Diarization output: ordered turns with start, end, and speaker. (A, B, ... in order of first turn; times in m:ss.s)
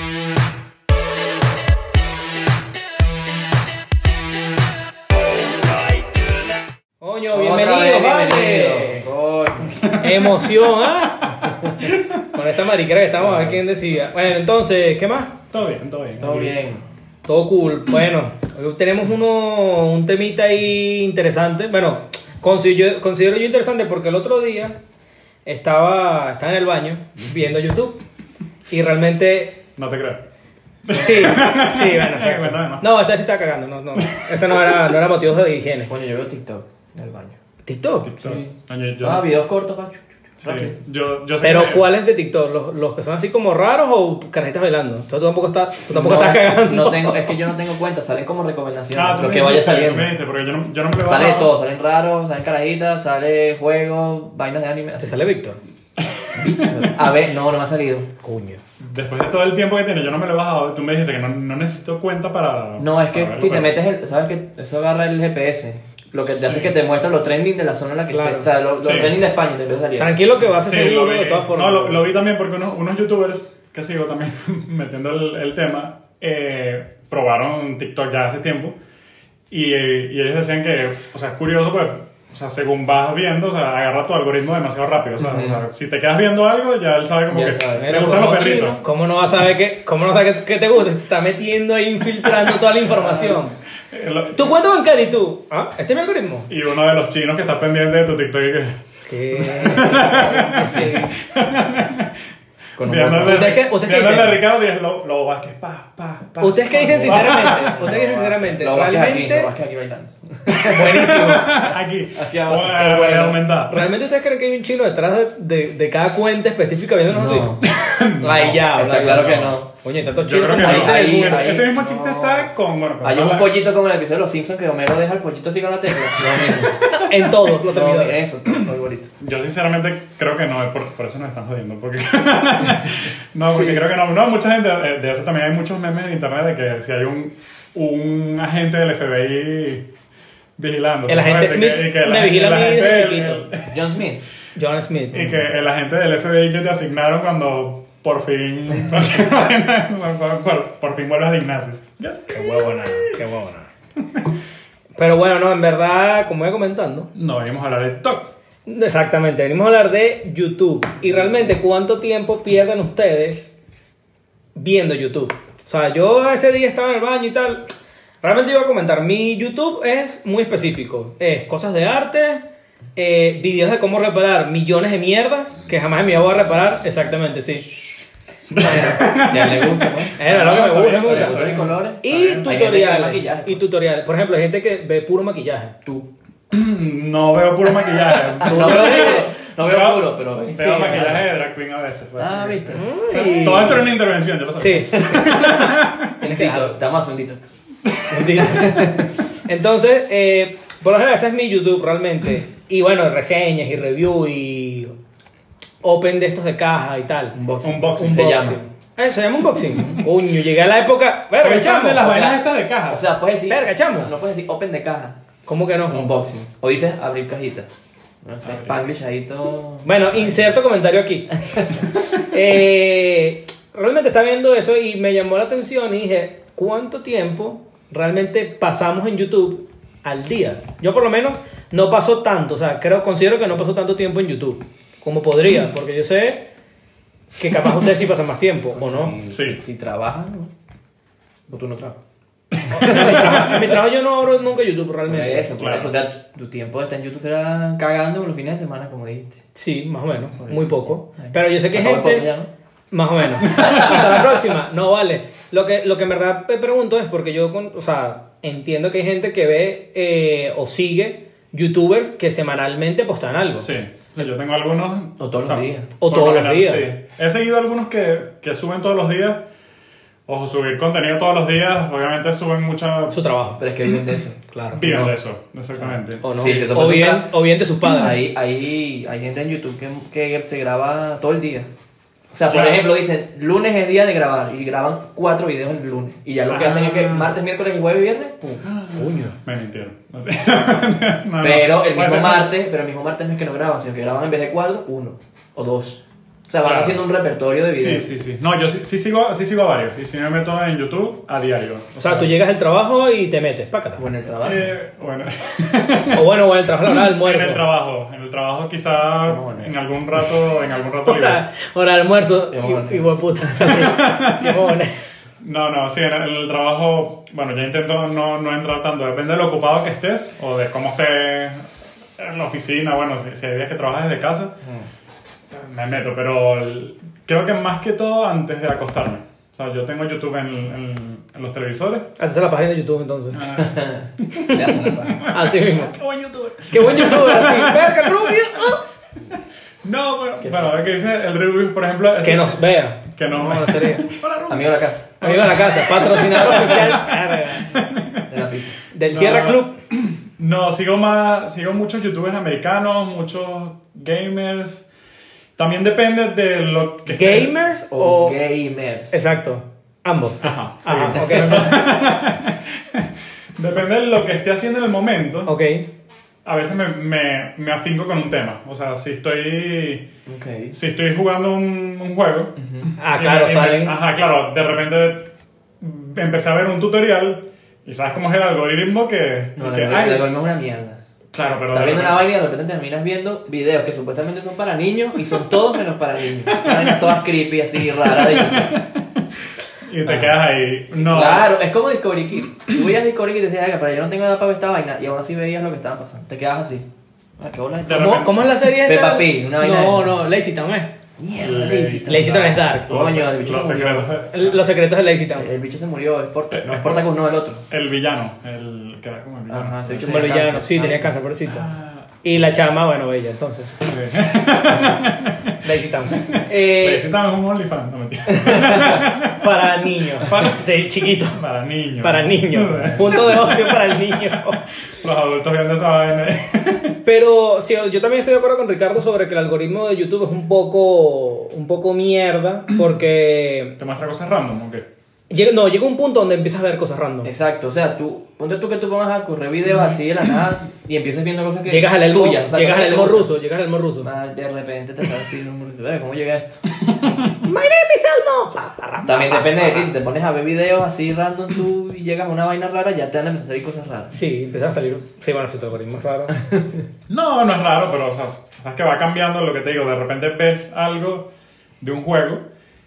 0:07.0-0:09.0 A
0:07.3-0:09.9 B
0:09.7-0:10.5 C
0:10.0-0:15.3 A
0:11.2-0:12.2 C
0:13.2-0:13.6 C
0:15.5-0:16.6 C
0:16.2-0:16.8 B
0:17.2-0:24.8 A
0:25.4-0:28.0 A
0:28.7-0:29.6 A
0:29.8-0:30.2 C
0:30.8-0:32.8 C
0:30.9-0:35.9 A
0:34.1-0:34.5 C
0:35.8-0:37.4 B
0:37.6-0:38.1 A
0:38.0-0:39.3 C
0:38.2-0:40.8 B
0:40.4-0:41.9 C
0:41.4-0:47.4 A
0:45.9-0:50.1 B
0:48.9-0:51.5 C
0:51.0-0:55.2 B
0:55.0-0:55.6 A
0:56.3-0:58.1 B
0:58.2-0:58.6 A
0:58.8-1:03.8 C
1:02.8-1:10.2 B
1:06.2-1:06.7 C
1:08.1-1:08.5 A
1:08.8-1:09.2 C
1:10.0-1:12.0 A
1:10.5-1:18.8 C
1:19.5-1:28.8 C
1:25.2-1:25.6 B
1:27.3-1:28.7 B
1:27.8-1:33.6 A
1:32.9-1:33.4 B
1:33.9-1:34.5 C
1:34.3-1:36.5 A
1:36.5-1:38.7 C
1:39.1-1:41.1 A
1:39.3-1:42.2 C
1:39.7-1:41.1 B
1:42.8-1:43.6 B
1:42.8-1:48.1 C
1:43.2-1:44.4 A
1:46.4-1:49.5 A
1:46.7-1:53.3 B
1:50.5-1:53.9 C
1:50.7-1:51.5 A
1:52.8-1:57.6 A
1:57.1-1:57.7 B
1:57.6-1:59.6 C
1:58.2-2:01.6 A
1:58.7-1:59.7 B
2:00.2-2:03.5 C
2:00.6-2:02.5 B
2:03.0-2:06.9 B
2:06.4-2:08.2 A
2:07.6-2:09.1 B
2:09.2-2:19.8 C
2:13.4-2:13.8 B
2:20.6-2:23.7 C
2:21.1-2:23.5 A
2:23.7-2:24.2 B
2:24.6-2:25.4 A
2:25.1-2:32.5 C
2:32.3-2:33.7 A
2:35.0-2:37.1 A
2:37.1-2:38.3 C
2:38.6-2:43.5 A
2:44.5-2:47.6 A
2:48.2-2:52.4 A
2:53.0-2:57.7 A
2:58.5-3:02.6 C
2:58.6-3:00.1 B
2:58.6-2:59.0 A
3:00.2-3:05.7 A
3:01.0-3:03.6 B
3:06.5-3:16.1 C
3:08.4-3:11.2 B
3:08.4-3:09.2 A
3:10.6-3:11.2 A
3:12.2-3:13.0 B
3:12.7-3:13.9 A
3:14.6-3:16.7 A
3:14.9-3:17.5 B
3:18.1-3:24.9 A
3:18.4-3:19.1 B
3:25.8-3:27.4 A
3:27.3-3:28.6 B
3:27.6-3:28.4 C
3:28.0-3:32.0 A
3:29.7-3:30.0 B
3:31.3-3:33.0 C
3:32.0-3:35.2 B
3:33.5-3:34.1 A
3:35.4-3:36.1 A
3:35.9-3:37.7 B
3:38.2-3:40.5 B
3:38.4-3:38.7 C
3:39.8-3:56.4 A
3:41.5-3:41.8 B
3:57.4-3:59.1 A
3:58.7-4:00.5 B
3:59.3-3:59.6 C
4:01.5-4:02.0 B
4:02.5-4:03.7 C
4:02.7-4:03.5 B
4:02.7-4:05.5 A
4:05.0-4:09.4 B
4:05.6-4:06.0 C
4:09.5-4:12.2 A
4:10.3-4:12.5 B
4:12.9-4:23.7 A
4:13.4-4:14.0 C
4:13.5-4:14.2 B
4:23.6-4:29.4 C
4:25.2-4:25.9 B
4:26.0-4:26.9 A
4:30.3-4:33.2 C
4:33.1-4:33.6 A
4:33.6-4:34.4 B
4:34.5-4:35.1 A
4:34.7-4:36.6 C
4:35.8-4:41.7 B
4:36.2-4:38.2 A
4:42.3-4:49.1 B
4:42.5-4:42.9 C
4:46.5-4:47.3 C
4:48.6-4:52.5 C
4:51.4-4:58.1 B
4:56.6-4:57.0 C
4:57.7-5:02.0 C
5:02.0-5:04.0 A
5:04.0-5:04.7 B
5:04.4-5:06.3 C
5:06.1-5:07.6 A
5:06.8-5:11.4 C
5:09.2-5:09.7 B
5:11.0-5:14.9 A
5:12.5-5:13.7 B
5:13.6-5:14.7 C
5:15.4-5:21.6 C
5:22.2-5:24.5 C
5:25.5-5:32.1 C
5:32.2-5:33.5 A
5:33.3-5:34.3 C
5:33.6-5:35.3 B
5:34.4-5:36.0 A
5:35.2-5:38.7 C
5:36.7-5:38.8 A
5:39.4-5:44.7 C
5:40.4-5:40.8 B
5:42.2-5:44.2 A
5:44.5-5:45.5 B
5:45.2-5:47.8 A
5:45.2-5:48.2 C
5:46.1-5:46.4 B
5:48.3-5:48.7 B
5:48.9-5:49.7 A
5:49.1-5:54.8 C
5:55.6-5:57.6 C
5:57.1-5:58.4 A
5:57.9-5:59.2 B
5:59.1-6:01.7 A
6:00.4-6:05.5 C
6:01.1-6:01.8 B
6:05.5-6:05.8 A
6:06.4-6:10.1 C
6:10.2-6:10.8 B
6:10.7-6:15.3 C
6:12.6-6:12.9 B
6:13.0-6:14.0 A
6:15.8-6:20.3 C
6:19.6-6:21.0 B
6:21.3-6:22.2 C
6:21.7-6:28.7 B
6:26.4-6:27.2 C
6:27.8-6:29.2 C
6:29.8-6:31.5 C
6:30.0-6:30.4 B
6:31.0-6:36.8 B
6:37.4-6:40.1 B
6:37.8-6:38.4 C
6:37.9-6:40.9 A
6:41.2-6:44.1 B
6:41.4-6:44.6 C
6:42.0-6:43.2 A
6:44.3-6:45.5 A
6:45.3-6:47.6 B
6:46.5-6:47.1 C
6:47.7-6:50.3 C
6:49.5-6:51.1 B
6:50.0-6:51.7 A
6:51.4-6:52.1 C
6:52.2-6:53.7 A
6:53.8-6:59.6 C
6:54.7-6:55.0 A
6:55.6-6:57.0 A
6:58.5-7:01.4 A
7:00.2-7:07.0 C
7:02.0-7:04.6 A
7:07.0-7:13.8 A
7:13.8-7:14.9 C
7:15.3-7:17.3 A
7:17.2-7:23.3 B
7:21.7-7:24.1 A
7:24.0-7:26.6 B
7:27.3-7:29.9 A
7:29.0-7:34.1 B
7:34.1-7:36.4 A
7:37.1-7:41.3 C
7:41.8-7:42.4 C